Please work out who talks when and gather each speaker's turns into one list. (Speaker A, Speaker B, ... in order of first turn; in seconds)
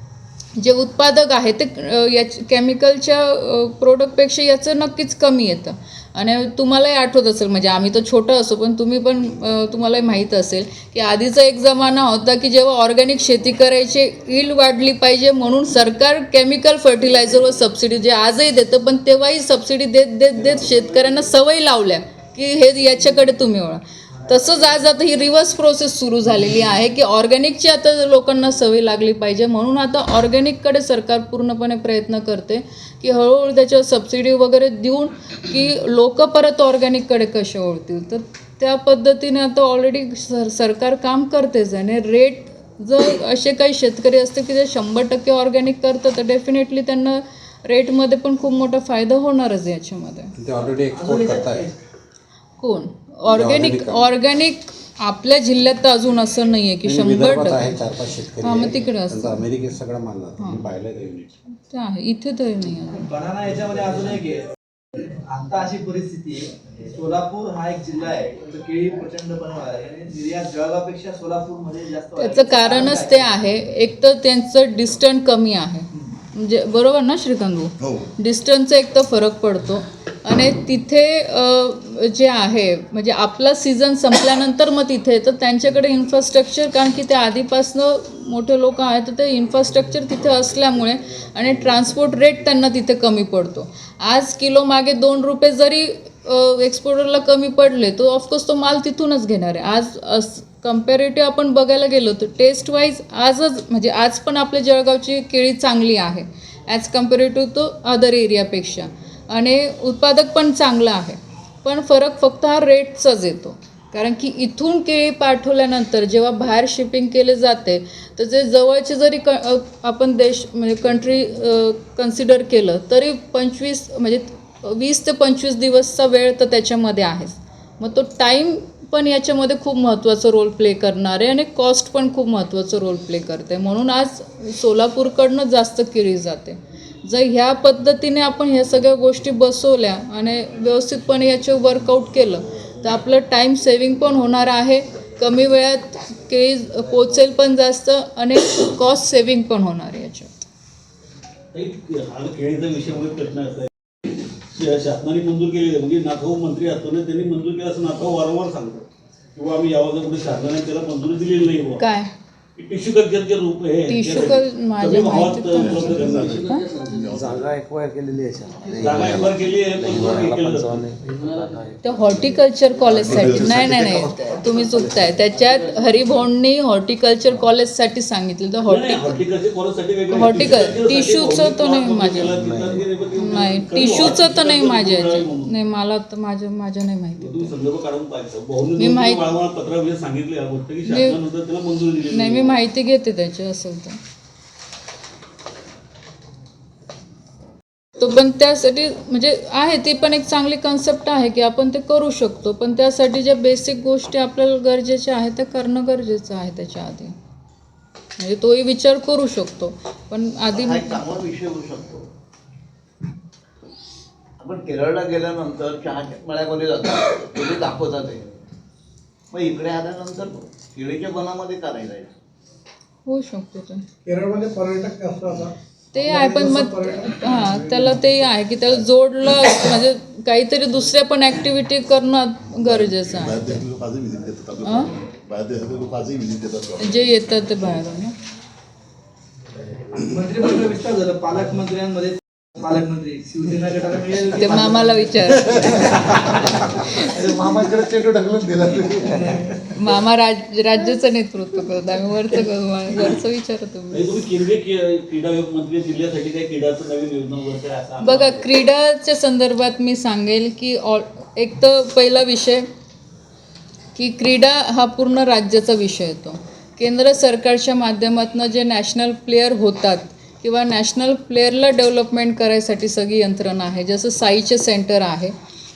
Speaker A: 0.6-50.3, 52.6-57.8, 58.4-59.5, 60.4-60.6, 61.7-63.1, 72.2-150.3, 161.8-162.1, 163.9-166.7, 171.8-179.2, 180.1-182.3, 183.2-187.5, 188.8-189.2, 190.9-191.2, 192.1-194.0, 198.0-207.2, 208.2-211.0, 223.1-223.9, 225.9-233.6, 234.6-234.9, 236.8-238.2, 244.3-245.9, 249.7-254.1, 258.0-262.7, 263.9-275.3
Speaker B: 50.4-51.7, 53.3-54.1, 56.8-61.4
Speaker C: 50.6-51.8, 62.9-73.3, 240.0-247.4, 249.2-249.4
Speaker D: 151.5-153.7, 154.5-161.8, 162.6-166.5, 168.8-171.4, 178.7-185.5, 187.2-192.6, 253.9-258.4
Speaker E: 165.6-167.5, 173.0-174.0, 232.6-237.2
Speaker F: 166.9-172.2, 173.1-173.8, 182.4-182.8
Speaker G: 210.5-212.1, 214.4-218.3, 219.3-222.2
Speaker H: 224.1-225.5, 226.1-226.9